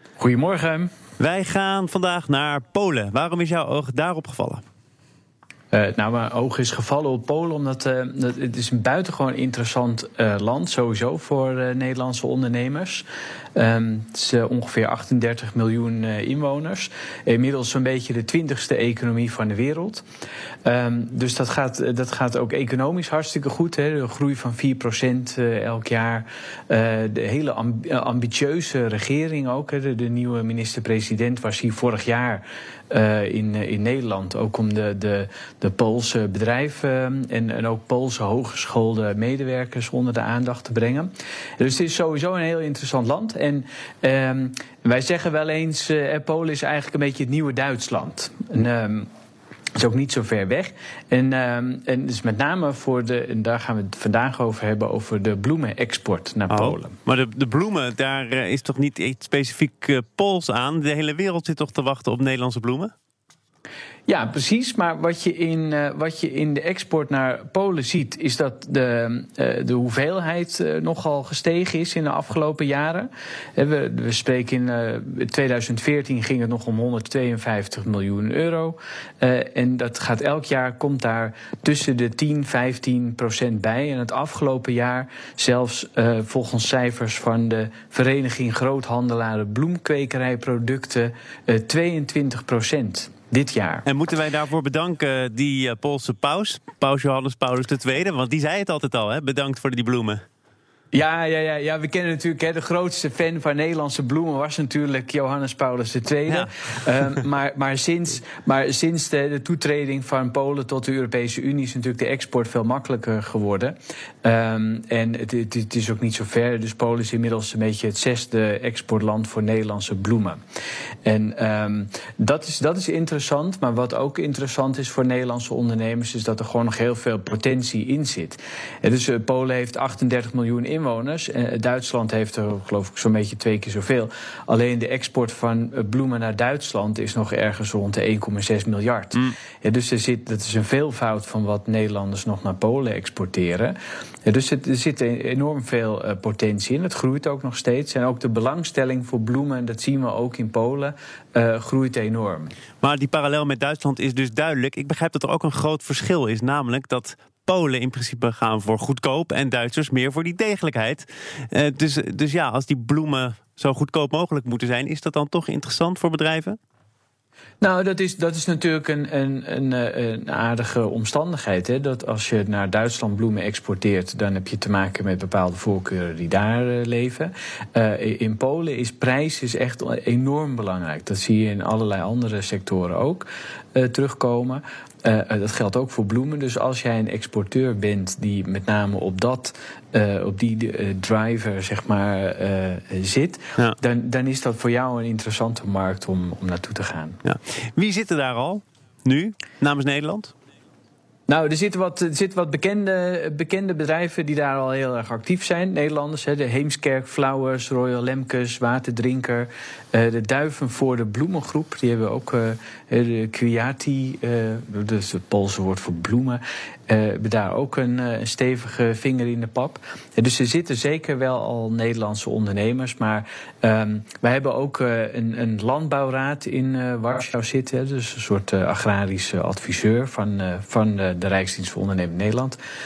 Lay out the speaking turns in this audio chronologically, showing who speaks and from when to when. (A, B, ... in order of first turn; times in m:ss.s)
0:00.2-0:00.9 A
0:01.2-0:04.6 B
0:05.7-0:20.0 A
0:20.6-0:49.1 A
0:49.8-0:57.0 A
0:56.5-1:02.9 B
1:04.1-1:33.8 A
1:33.8-1:40.2 B
1:40.9-2:00.4 A
2:01.0-2:32.5 A
2:32.8-2:46.6 B
2:47.6-3:17.2 A
3:17.2-3:20.3 B
3:21.3-3:52.6 A